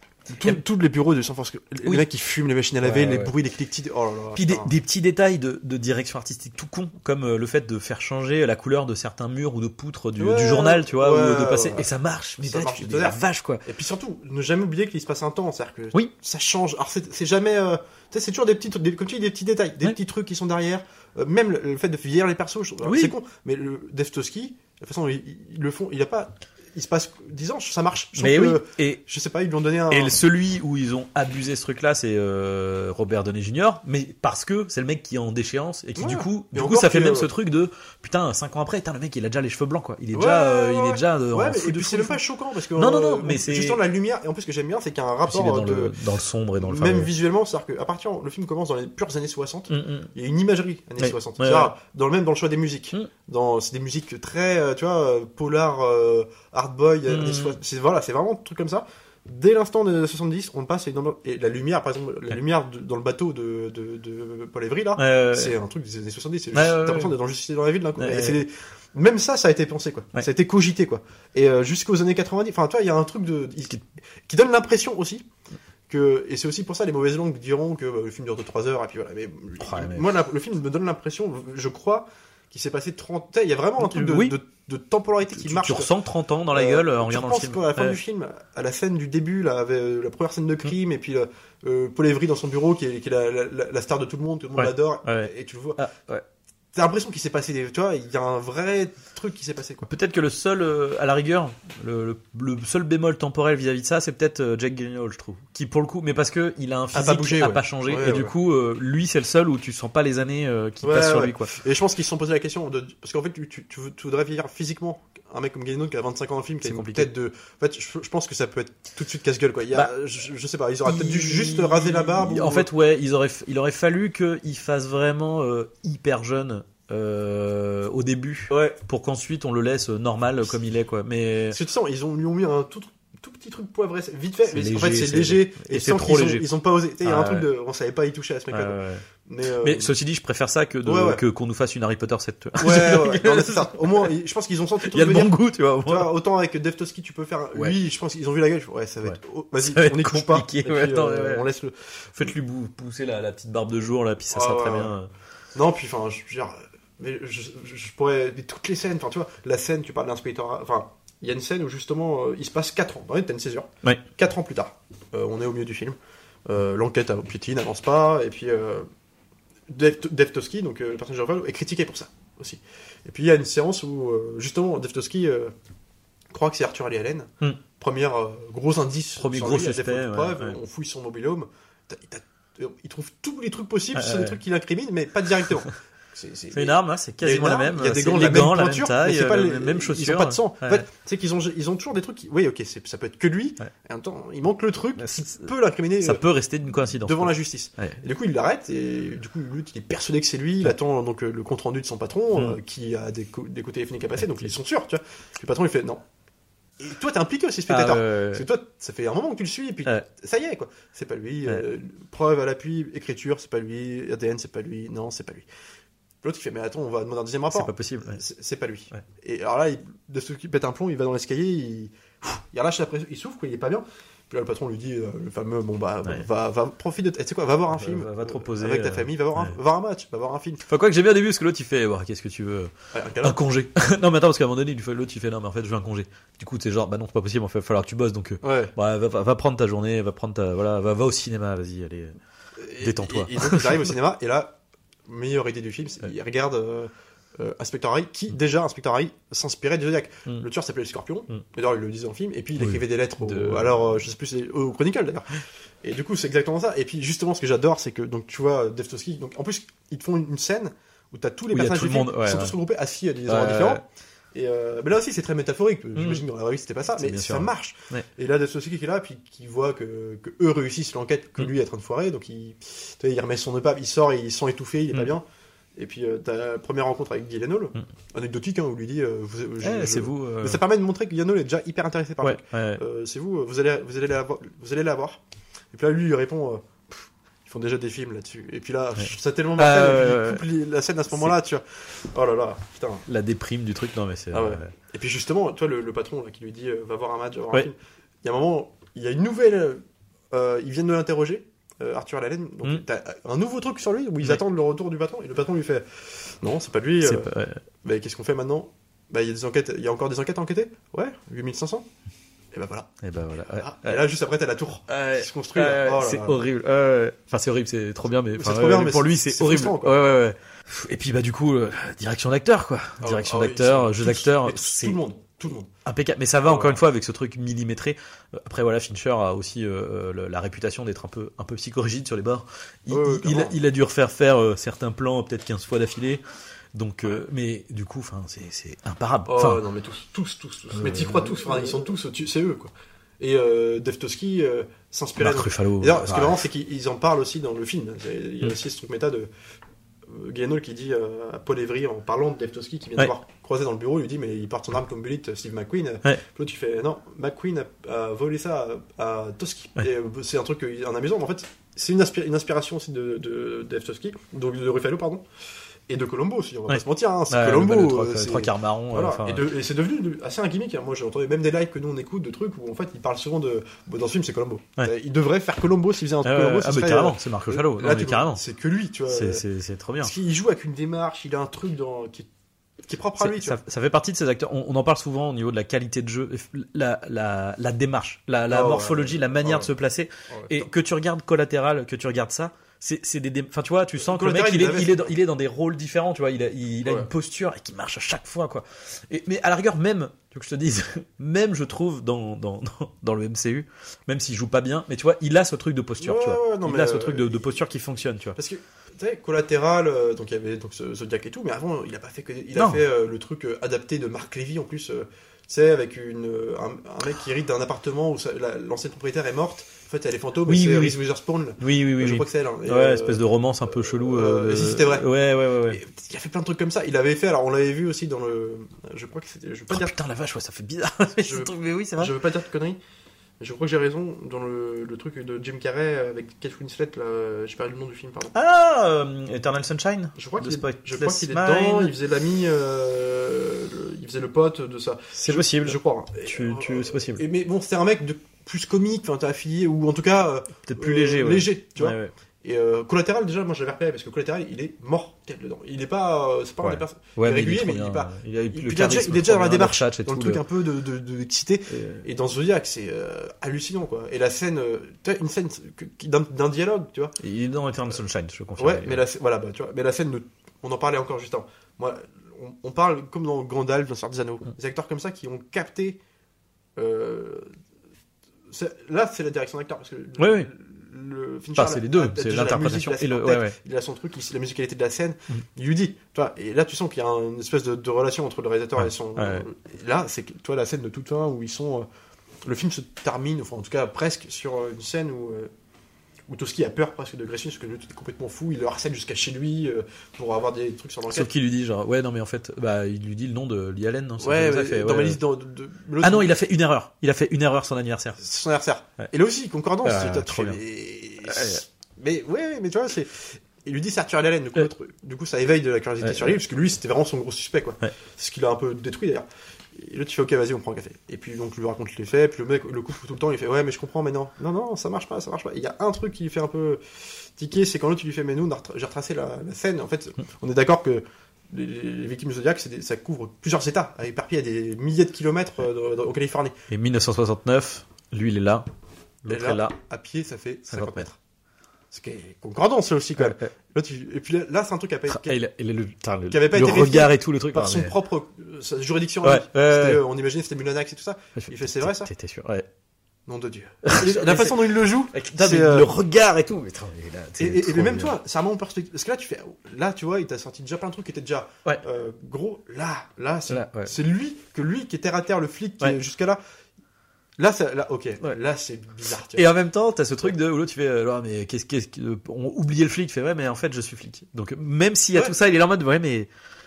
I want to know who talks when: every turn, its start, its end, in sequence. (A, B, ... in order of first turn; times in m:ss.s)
0:00.3-0:04.7 A
0:02.8-0:03.3 B
0:04.3-0:13.6 B
0:10.2-0:11.9 A
0:12.4-0:30.2 A
0:22.8-0:23.1 B
0:28.2-0:29.0 B
0:29.9-0:42.2 B
0:36.0-0:37.3 A
0:40.1-0:46.0 A
0:42.7-0:43.8 B
0:45.3-0:47.1 B
0:46.6-1:15.3 A
0:49.7-0:50.1 B
0:51.0-0:51.7 B
0:57.1-0:57.6 B
1:05.0-1:05.6 B
1:06.5-1:07.2 B
1:08.0-1:08.4 B
1:15.9-1:25.9 A
1:19.6-1:20.1 B
1:23.8-1:24.4 B
1:25.4-1:28.0 B
1:26.5-1:35.8 A
1:34.6-1:36.2 B
1:36.7-1:39.9 A
1:39.9-1:51.5 B
1:46.9-1:48.3 A
1:50.8-2:02.7 A
1:56.6-1:57.1 B
2:00.8-2:11.6 B
2:08.5-2:08.8 A
2:11.5-2:19.9 A
2:14.5-2:16.5 B
2:17.0-2:17.5 B
2:18.5-2:19.0 B
2:19.6-2:24.1 B
2:20.8-2:21.2 A
2:22.6-2:32.3 A
2:24.9-2:26.1 B
2:29.7-2:31.5 B
2:32.2-2:35.1 B
2:34.3-2:34.9 A
2:35.6-2:48.9 A
2:49.7-2:55.5 A
2:56.3-3:16.2 A
2:59.2-3:00.6 B
3:03.9-3:04.4 B
3:06.5-3:10.8 B
3:15.0-3:15.5 B
3:16.0-3:18.0 B
3:17.0-3:26.0 A
3:26.8-3:35.5 A
3:27.7-3:28.4 B
3:36.2-3:50.6 A
3:37.5-3:38.2 B
3:47.7-3:49.6 B
3:50.7-4:02.2 B
3:52.9-3:53.4 A
3:58.4-3:58.7 A
4:02.6-4:35.2 A
4:02.8-4:03.9 B
4:12.6-4:13.8 B
4:21.5-4:22.6 B
4:23.3-4:23.8 B
4:26.0-4:26.2 B
4:27.0-4:28.0 B
4:35.8-4:45.2 A
4:39.6-4:40.6 B
4:42.2-4:42.8 B
4:45.7-4:53.1 A
4:49.0-4:50.4 B
4:53.1-4:54.7 B
4:54.3-5:07.3 A
5:07.0-5:07.6 B
5:07.8-5:11.9 A
5:12.5-5:12.9 A
5:13.0-5:14.0 B
5:13.6-5:16.4 A
5:14.9-5:25.0 B
5:18.4-5:20.0 A
5:23.0-5:25.7 A
5:25.8-5:36.2 B
5:26.4-5:26.8 A
5:32.9-5:33.6 A
5:36.7-5:39.6 B
5:39.3-5:49.3 A
5:40.7-5:41.9 B
5:45.2-5:46.4 B
5:50.1-6:05.2 A
6:05.9-6:19.4 A
6:06.7-6:09.5 B
6:16.2-6:18.4 B
6:19.1-6:20.1 B
6:20.0-6:22.3 A
6:22.8-6:23.6 A
6:23.2-6:48.4 B
6:28.5-6:29.7 A
6:30.3-6:30.6 A
6:34.0-6:35.1 A
6:36.8-6:37.1 A
6:46.0-6:47.5 A
6:48.4-7:03.2 A
6:52.6-6:52.8 B
7:00.5-7:01.0 B
7:01.6-7:05.8 B
7:03.8-7:05.1 A
7:05.7-7:10.0 A
7:09.7-7:12.1 B
7:11.2-7:12.8 A
7:13.4-7:18.3 A
7:18.3-7:21.9 B
7:20.2-7:47.2 A
7:25.2-7:27.2 B
7:30.7-7:32.1 B
7:36.6-7:40.4 B
7:41.7-7:42.0 B
7:47.2-7:49.0 B
7:48.6-7:56.0 A
7:56.8-7:57.5 A
7:58.5-8:11.9 A
8:00.2-8:00.5 B
8:01.6-8:03.6 B
8:08.8-8:09.4 B
8:12.4-8:15.5 A
8:16.3-8:21.3 A
8:21.1-8:25.2 B
8:24.2-8:26.3 A
8:26.0-8:28.2 B
8:28.2-8:56.6 A
8:29.8-8:30.6 B
8:31.2-8:31.6 B
8:36.0-8:36.3 B
8:56.7-8:58.7 B
8:59.2-8:59.8 B
8:59.3-9:01.2 A
9:00.7-9:01.1 B
9:01.9-9:05.4 A
9:03.2-9:03.5 B
9:05.1-9:07.9 B
9:06.3-9:12.1 A
9:09.2-9:10.0 B
9:11.4-9:12.7 B
9:13.3-9:15.9 A
9:13.8-9:18.2 B
9:17.4-9:26.4 A
9:23.5-9:23.9 B
9:27.4-9:29.5 A
9:29.3-9:36.3 B